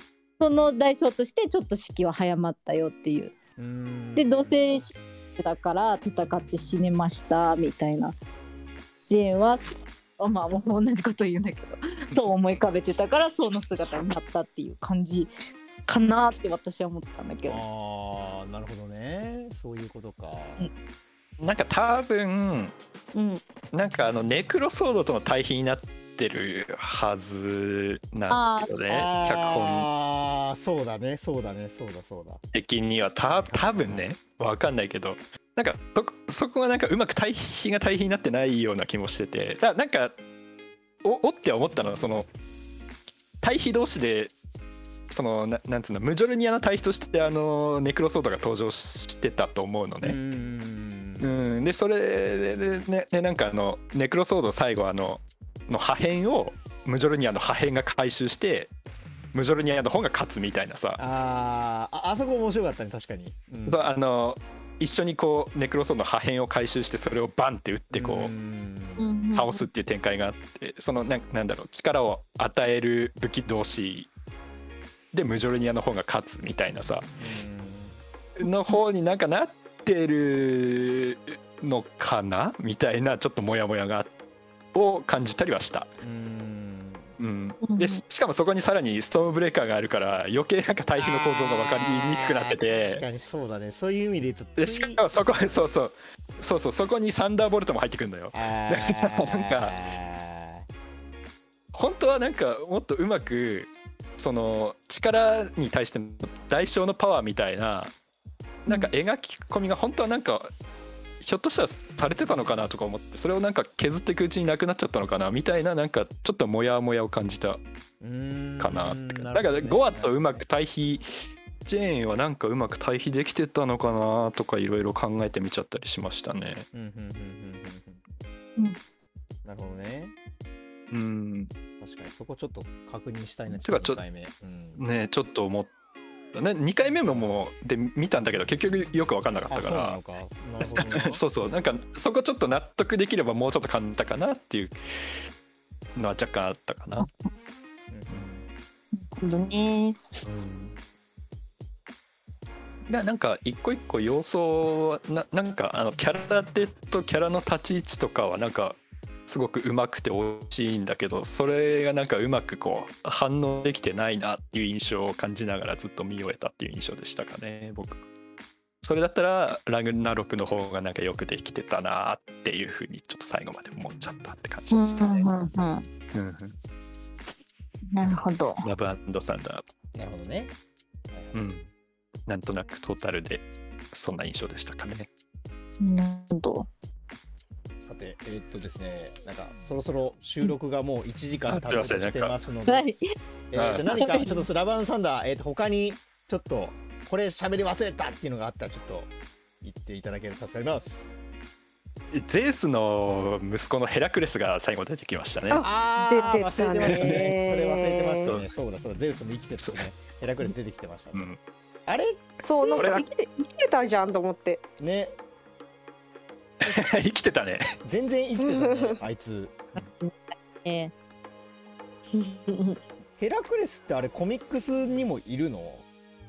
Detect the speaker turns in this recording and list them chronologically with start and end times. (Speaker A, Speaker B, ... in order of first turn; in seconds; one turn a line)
Speaker A: 0.4-3.3
Speaker B: 3.6-4.8
Speaker A: 4.2-8.2
Speaker A: 9.1-15.3
Speaker A: 15.9-17.6
Speaker B: 17.5-20.7
Speaker C: 21.4-22.7
Speaker A: 23.1-23.4
Speaker C: 23.7-29.9
Speaker A: 28.3-29.1
Speaker B: 28.9-32.4
Speaker C: 32.5-40.2
Speaker B: 33.3-34.0
Speaker C: 41.0-42.3
Speaker C: 43.4-44.3
Speaker C: 45.1-50.2
Speaker B: 50.0-51.4
Speaker C: 51.2-58.7
Speaker C: 59.3-61.0
Speaker B: 61.0-63.9
Speaker C: 63.7-68.3
Speaker B: 67.9-69.1
Speaker A: 69.0-69.7
Speaker C: 69.3-74.1
Speaker C: 75.1-77.1
Speaker B: 77.2-78.0
Speaker C: 78.4-84.1
Speaker C: 84.7-85.9
Speaker B: 86.0-87.1
Speaker C: 87.2-93.0
Speaker A: 87.6-88.0
Speaker B: 91.0-95.6
Speaker C: 94.6-99.8
Speaker B: 98.3-100.7
Speaker C: 101.7-107.9
Speaker C: 108.7-110.5
Speaker C: 111.2-117.6
Speaker B: 118.0-120.4
Speaker C: 118.6-126.7
Speaker B: 126.7-128.0
Speaker B: 129.4-130.1
Speaker C: 130.9-131.5
Speaker B: 131.8-134.8
Speaker C: 133.5-134.0
Speaker C: 134.8-135.7
Speaker C: 136.3-140.0
Speaker B: 139.5-141.2
Speaker C: 140.6-144.8
Speaker C: 145.9-147.1
Speaker B: 147.9-148.5
Speaker A: 148.9-150.0
Speaker C: 150.2-150.8
Speaker C: 152.9-168.0
Speaker C: 168.8-175.3
Speaker A: 174.7-175.9
Speaker C: 176.1-176.6
Speaker A: 177.9-178.6
Speaker C: 178.0-179.6
Speaker B: 179.9-180.5
Speaker B: 181.1-181.4
Speaker C: 181.3-181.7
Speaker C: 182.3-185.1
Speaker A: 185.8-186.7
Speaker B: 187.8-192.9
Speaker C: 191.5-192.4
Speaker A: 192.7-193.0
Speaker B: 193.5-199.1
Speaker C: 193.6-194.2
Speaker A: 194.0-194.3
Speaker B: 199.6-201.1
Speaker C: 202.1-205.6
Speaker D: 205.5-208.3
Speaker B: 205.5-211.2
Speaker C: 206.8-207.3
Speaker C: 208.3-208.5
Speaker C: 209.6-209.9
Speaker C: 211.1-211.4
Speaker B: 211.9-212.8
Speaker D: 212.4-214.6
Speaker C: 212.8-213.1
Speaker B: 214.8-215.1
Speaker C: 216.6-217.7
Speaker B: 217.8-219.9
Speaker D: 218.4-219.0
Speaker A: 219.8-220.9
Speaker A: 222.1-222.8
Speaker B: 223.2-225.8